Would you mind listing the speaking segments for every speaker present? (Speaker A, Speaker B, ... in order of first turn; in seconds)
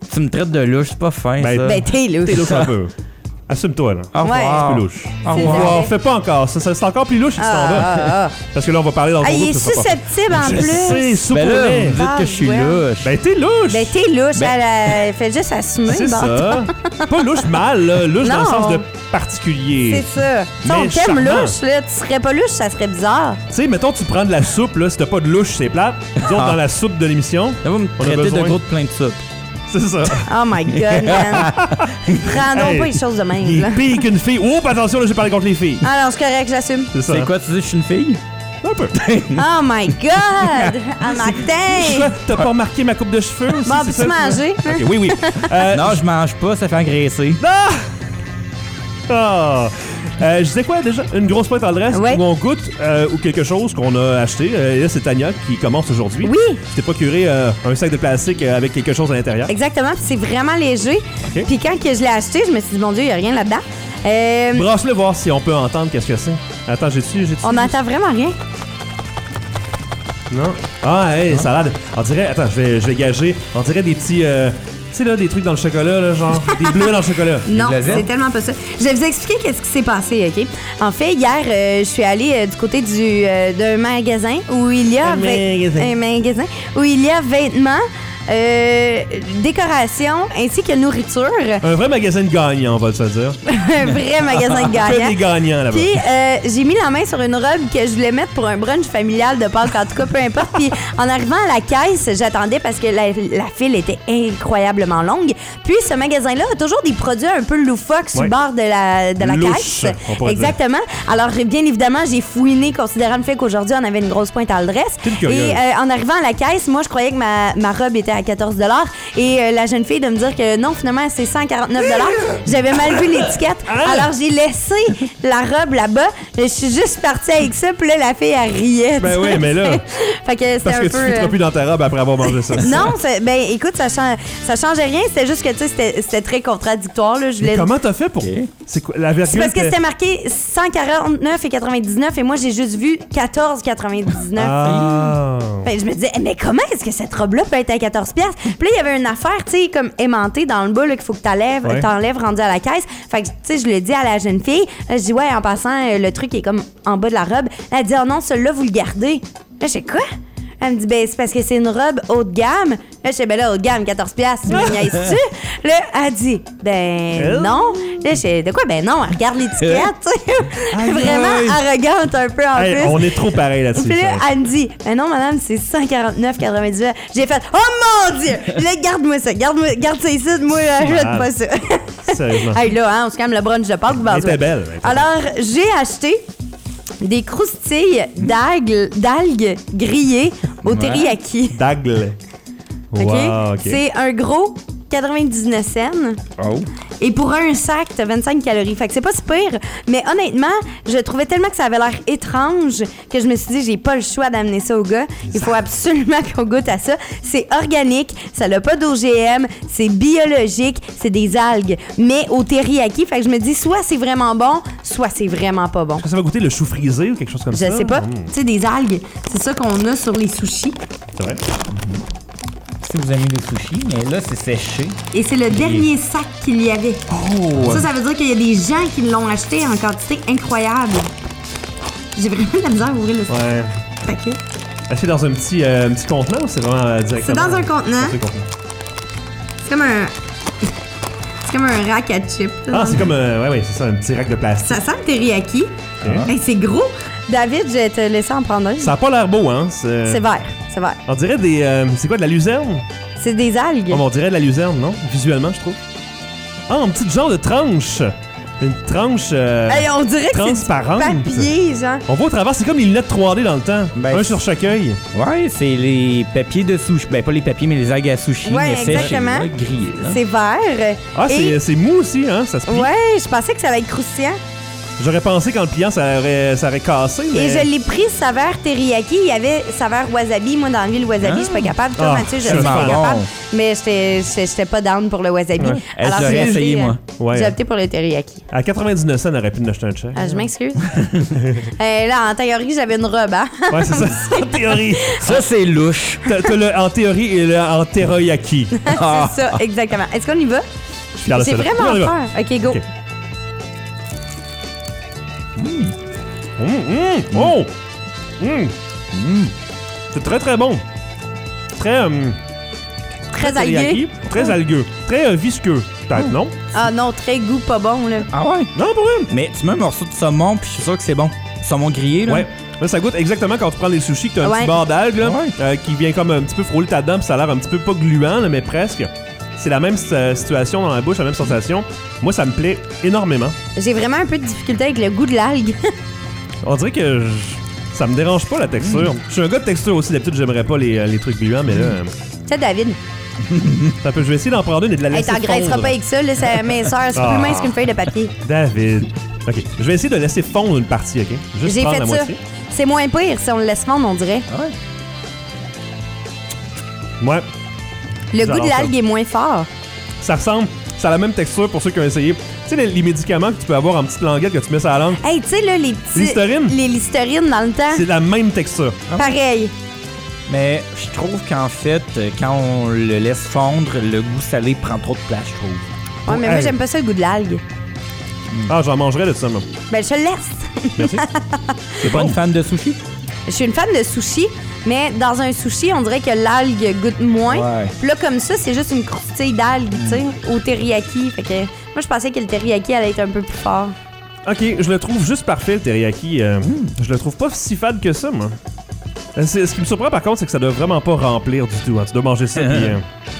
Speaker A: 0.1-1.9, 2.4-2.7, 4.1-5.8, 11.3-13.1, 26.2-26.6, 27.6-29.2, 30.8-31.9, 37.1-38.2, 39.0-39.4, 40.4-40.7, 45.7-47.4, 77.5-78.1, 138.2-138.5, 144.6-145.2, 169.6-169.9, 196.4-196.7, 221.8-222.0, 222.8-225.0, 225.5-225.8, 246.0-246.3, 263.9-264.4, 265.1-270.2, 281.2-281.8, 282.4-283.3, 285.6-287.0, 295.2-296.2, 298.9-299.6, 305.6-305.9, 309.1-309.5, 318.3-318.7, 319.3-322.5, 325.2-325.5, 338.8-339.1, 370.5-375.8, 382.0-383.0, 387.5-387.9, 396.6-396.9, 402.6-402.9
Speaker B: 1.4-2.9, 3.5-12.0, 13.0-13.9, 15.9-20.1, 20.6-21.6, 23.5-28.6, 29.7-30.3, 31.2-35.9, 36.9-37.3, 38.6-39.0, 41.7-46.0, 47.4-47.9, 49.1-59.5, 61.2-61.5, 64.5-67.8, 70.3-78.1, 85.0-85.9, 91.6-93.4, 94.5-96.0, 109.2-110.6, 115.0-115.6, 123.7-124.1, 129.0-129.8, 130.6-132.9, 137.4-139.8, 144.3-145.7, 151.6-151.9, 164.5-164.8, 167.2-168.0, 170.7-171.6, 172.6-174.2, 180.8-181.3, 182.1-182.6, 183.9-185.1, 190.6-192.2, 192.9-193.8, 205.3-205.6, 216.0-218.3, 221.2-221.4, 227.1-227.8, 233.3-233.7, 234.9-238.5, 242.7-244.8, 246.0-246.3, 248.8-250.2, 251.1-252.8, 253.9-255.8, 256.7-261.5, 262.1-265.0, 268.9-269.2, 271.1-272.9, 275.0-277.7, 282.0-283.1, 285.6-287.6, 288.5-290.4, 293.7-295.4, 296.2-298.8, 301.2-302.8, 306.6-307.7, 308.4-308.7, 310.1-310.8, 311.8-312.4, 313.4-316.5, 318.8-319.3, 322.2-333.6, 336.6-342.1, 344.0-345.9, 347.1-347.8, 348.4-352.4, 357.2-357.4, 358.4-358.9, 360.2-365.2, 366.1-366.8, 367.9-369.0, 376.3-376.8, 378.7-379.6, 381.0-381.2, 382.0-382.4, 394.4-398.6, 399.3-403.0
Speaker C: 1.6-2.5, 4.2-5.9, 7.4-8.3, 9.2-12.8, 13.7-17.2, 18.2-18.8, 19.8-23.4, 30.2-31.6, 32.1-34.0, 35.8-36.9, 39.3-42.2, 43.6-45.5, 51.9-52.2, 56.2-56.6, 59.5-64.7, 67.4-68.4, 77.5-91.6, 93.5-131.4, 132.6-137.7, 139.2-144.8, 145.6-160.1, 160.6-186.2, 187.0-191.6, 193.0-196.2, 197.0-216.1, 217.5-220.8, 225.1-227.0, 227.6-231.1, 232.1-233.4, 234.0-234.4, 237.2-238.2, 239.6-240.1, 241.4-243.1, 244.6-245.7, 246.2-248.9, 250.1-251.0, 253.2-254.0, 259.7-262.0, 268.4-271.6, 272.7-274.4, 277.3-288.4, 290.1-291.0, 291.6-295.3, 298.8-300.6, 301.3-302.8, 313.3-314.5, 316.7-318.3, 324.4-324.8, 333.8-335.8, 342.4-343.0, 345.1-348.3, 351.6-354.5, 358.3-359.7, 365.2-368.0, 369.2-369.7, 376.2-377.6, 379.9-382.0, 383.5-393.9